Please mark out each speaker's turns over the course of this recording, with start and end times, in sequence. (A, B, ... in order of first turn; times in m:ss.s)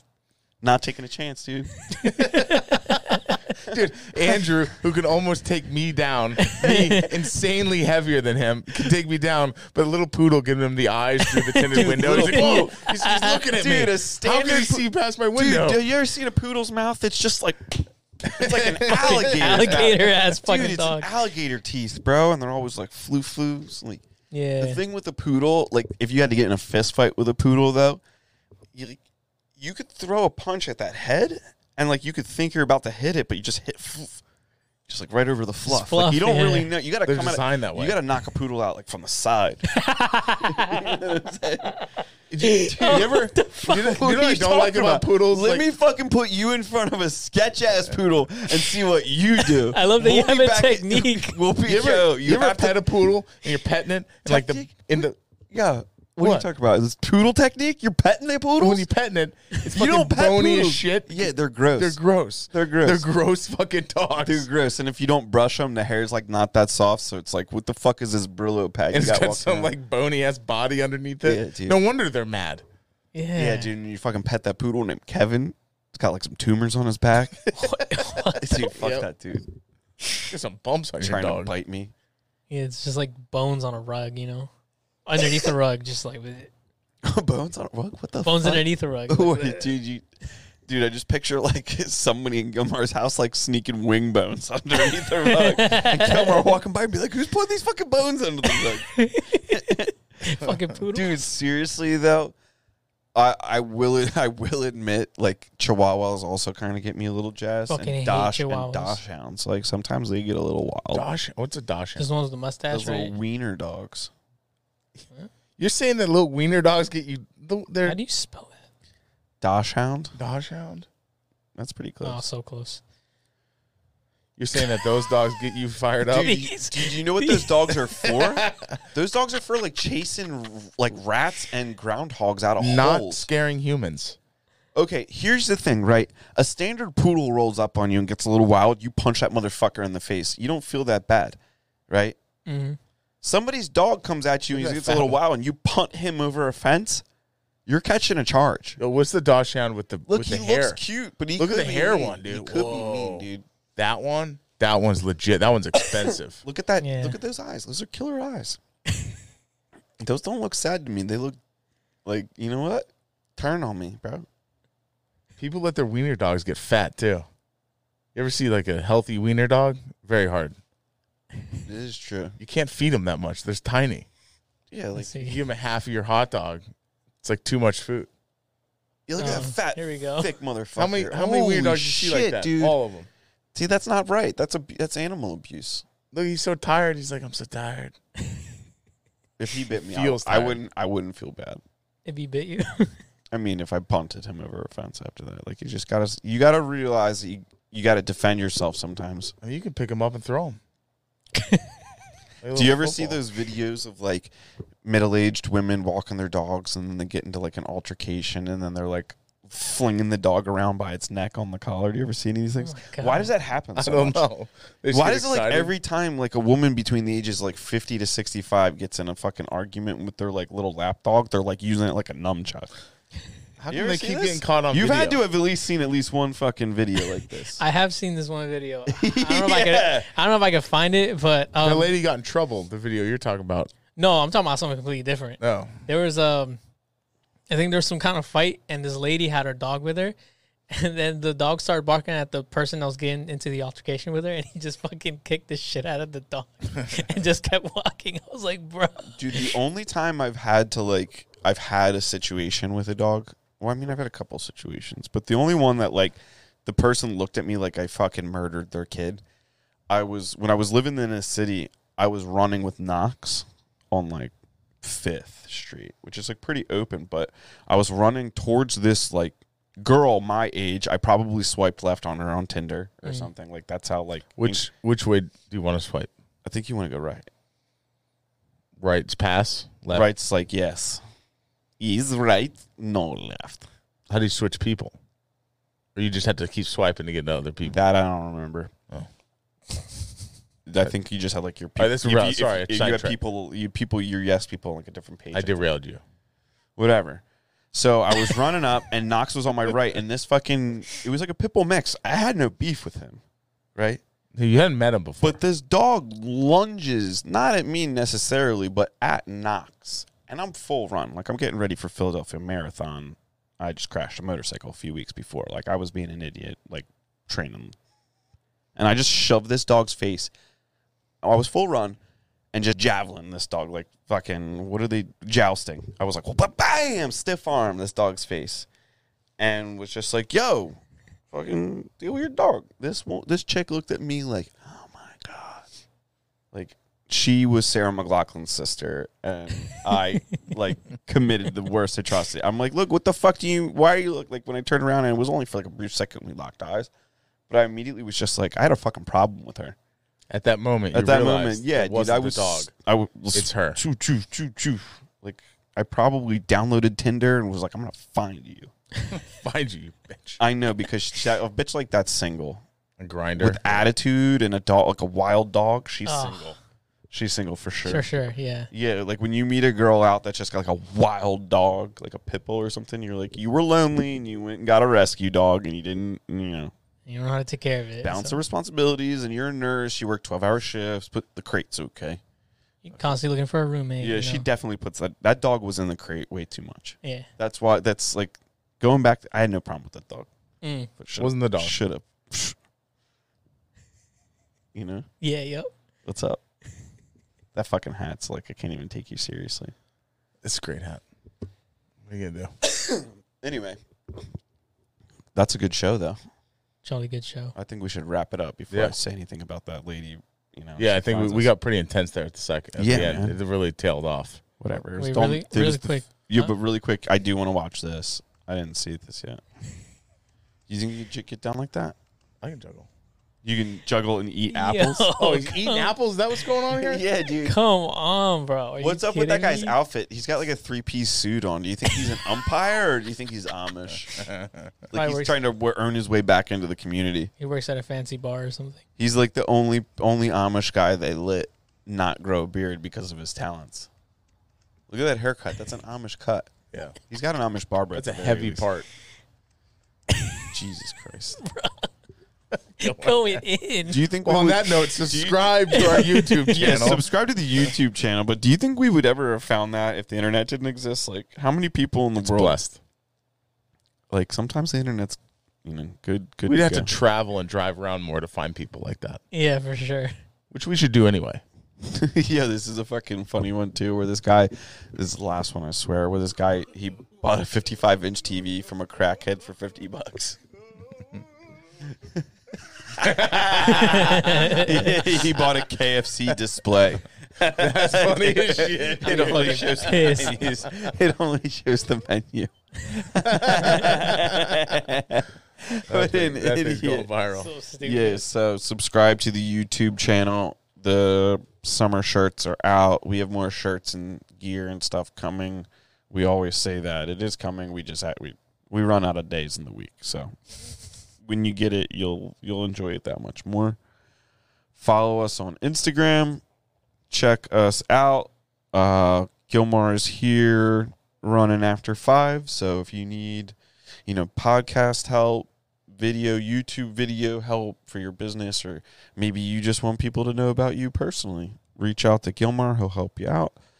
0:00.6-0:01.7 A
0:02.0-0:03.3 B
0:02.0-0:15.8 C
0:06.4-0:07.1 B
0:11.3-0:13.4 B
0:11.7-0:24.0 A
0:18.3-0:20.0 C
0:18.8-0:21.1 B
0:24.3-0:24.8 B
0:24.6-0:28.0 A
0:28.7-0:29.0 A
0:29.6-0:34.2 A
0:34.9-0:39.7 A
0:35.7-0:36.7 B
0:37.0-0:38.0 C
0:39.7-0:41.0 B
0:40.5-0:41.8 A
0:42.3-0:45.6 C
0:42.4-0:44.0 B
0:42.5-0:52.8 A
0:49.4-0:51.4 B
0:51.6-0:55.2 C
0:54.2-0:58.9 A
0:56.2-0:56.5 C
0:58.6-1:04.5 C
0:59.6-1:02.0 A
1:02.5-1:03.0 A
1:04.2-1:09.7 A
1:08.9-1:12.6 C
1:11.2-1:11.8 A
1:13.1-1:13.7 B
1:13.4-1:17.6 A
1:17.6-1:18.7 B
1:18.3-1:19.5 A
1:18.5-1:19.1 C
1:20.3-1:21.5 C
1:21.0-1:21.9 A
1:22.5-1:24.5 B
1:25.0-1:26.5 B
1:27.0-1:30.1 A
1:28.2-1:29.7 B
1:30.6-1:39.9 A
1:35.3-1:36.4 B
1:38.5-1:41.1 B
1:40.9-1:42.3 A
1:43.1-1:51.0 A
1:47.7-1:49.0 B
1:50.9-1:52.0 C
1:52.0-1:53.1 B
1:52.7-1:54.1 A
1:55.6-1:58.0 C
1:57.8-1:58.6 B
1:59.4-2:00.1 A
2:00.2-2:00.9 C
2:01.6-2:02.2 A
2:02.0-2:02.8 B
2:04.4-2:06.4 C
2:06.1-2:13.3 A
2:06.2-2:07.8 B
2:08.0-2:08.8 C
2:12.6-2:14.2 C
2:14.7-2:21.4 A
2:21.9-2:22.2 A
2:22.4-2:22.8 B
2:23.2-2:27.0 A
2:24.5-2:25.2 C
2:27.6-2:28.8 A
2:28.8-2:30.8 C
2:30.1-2:33.4 A
2:31.4-2:36.4 C
2:36.4-2:38.6 A
2:36.8-2:37.2 B
2:40.0-2:41.4 A
2:42.0-2:44.3 A
2:45.4-2:47.3 C
2:48.1-2:50.6 C
2:51.6-2:52.4 A
2:52.4-2:54.1 C
2:54.7-2:55.2 A
2:55.0-2:55.4 B
2:55.2-2:56.6 C
2:57.2-2:58.1 C
2:59.1-3:02.8 A
2:59.2-3:00.3 B
3:00.8-3:03.1 C
3:03.5-3:05.8 A
3:06.1-3:07.9 C
3:09.4-3:11.6 A
3:09.8-3:10.6 C
3:12.0-3:13.0 B
3:13.3-3:19.3 A
3:19.4-3:20.6 C
3:21.4-3:21.6 B
3:22.4-3:23.2 C
3:22.5-3:24.3 A
3:24.8-3:34.2 A
3:32.6-3:33.3 B
3:33.8-3:35.7 C
3:34.9-3:42.7 A
3:43.6-3:45.2 C
3:43.7-3:47.6 A
3:47.6-3:51.9 B
3:48.9-3:50.1 A
3:51.6-3:53.7 C
3:54.0-3:56.6 B
3:55.4-3:55.8 C
3:57.5-4:00.1 B
4:00.7-4:09.5 B
4:09.1-4:19.2 A
4:19.9-4:34.6 A
4:34.4-4:36.1 C
4:36.4-4:37.3 A
4:38.8-4:40.1 C
4:39.9-4:41.0 A
4:41.8-4:43.6 A
4:44.1-4:44.9 C
4:45.9-4:47.8 C
4:47.6-4:48.7 A
4:50.6-4:55.6 A
4:51.8-4:53.2 C
4:55.3-4:56.0 C
4:56.8-5:03.2 A
5:03.8-5:04.0 A
5:04.3-5:05.4 C
5:05.2-5:17.7 A
5:18.8-5:20.3 A
5:21.2-5:22.0 A
5:22.5-5:28.7 A
5:29.4-5:30.8 A
5:31.3-5:35.6 A
5:36.5-5:46.9 A
5:47.5-5:49.8 A
5:50.3-5:52.7 C
5:50.9-5:58.7 A
5:53.3-5:53.8 C
5:59.1-6:00.4 C
6:00.4-6:02.6 A
6:03.0-6:03.9 C
6:03.4-6:06.6 A
6:06.0-6:06.5 B
6:07.1-6:08.1 A
6:07.8-6:08.7 B
6:08.7-6:16.7 A
6:17.0-6:18.4 B
6:18.0-6:22.2 A
6:22.8-6:24.4 B
6:24.0-6:30.3 A
6:27.0-6:27.3 B
6:30.6-6:30.9 B
6:31.0-6:32.6 A
6:31.2-6:31.8 C
6:34.7-6:35.1 A
6:35.2-6:35.7 B
6:36.0-6:36.4 A
6:37.5-6:39.7 A
6:40.4-6:41.0 C
6:42.0-6:42.5 C
6:42.6-6:43.8 A
6:45.3-6:46.2 A
6:46.8-6:47.5 B
6:47.6-6:51.5 A
6:48.7-6:49.0 C
6:50.8-6:54.4 C
6:52.8-6:53.3 A
6:54.6-6:59.4 A
6:55.0-6:56.5 B
7:00.7-7:02.0 A
7:02.4-7:02.9 C
7:03.4-7:05.1 A
7:04.5-7:05.9 B
7:05.2-7:07.0 C
7:06.7-7:07.6 A
7:07.4-7:09.8 B
7:08.8-7:14.3 A
7:14.1-7:14.7 C
7:14.9-7:17.3 A
7:14.9-7:15.4 B
7:17.4-7:18.8 B
7:19.0-7:23.9 A
7:24.9-7:26.5 A
7:26.7-7:27.0 C
7:27.1-7:28.7 A
7:27.9-7:28.9 C
7:30.5-7:31.4 A
7:31.4-7:31.9 B
7:32.8-7:33.4 C
7:32.8-7:34.0 B
7:33.8-7:36.0 A
7:34.2-7:37.0 C
7:35.7-7:36.9 B
7:36.5-7:42.6 A
7:42.2-7:42.8 C
7:44.1-7:46.9 A
7:46.5-7:49.2 C
7:49.3-7:50.1 B
7:50.5-7:51.4 C
7:51.8-8:00.4 A
8:02.9-8:17.1 A
8:03.0-8:05.4 C
8:03.7-8:04.9 B
8:07.5-8:10.5 C
8:09.0-8:10.5 B
8:13.3-8:14.7 C
8:15.9-8:17.5 C
8:17.3-8:18.2 B
8:17.8-8:30.3 A
8:31.2-8:33.8 A
8:34.7-8:36.4 A
8:37.1-8:53.6 A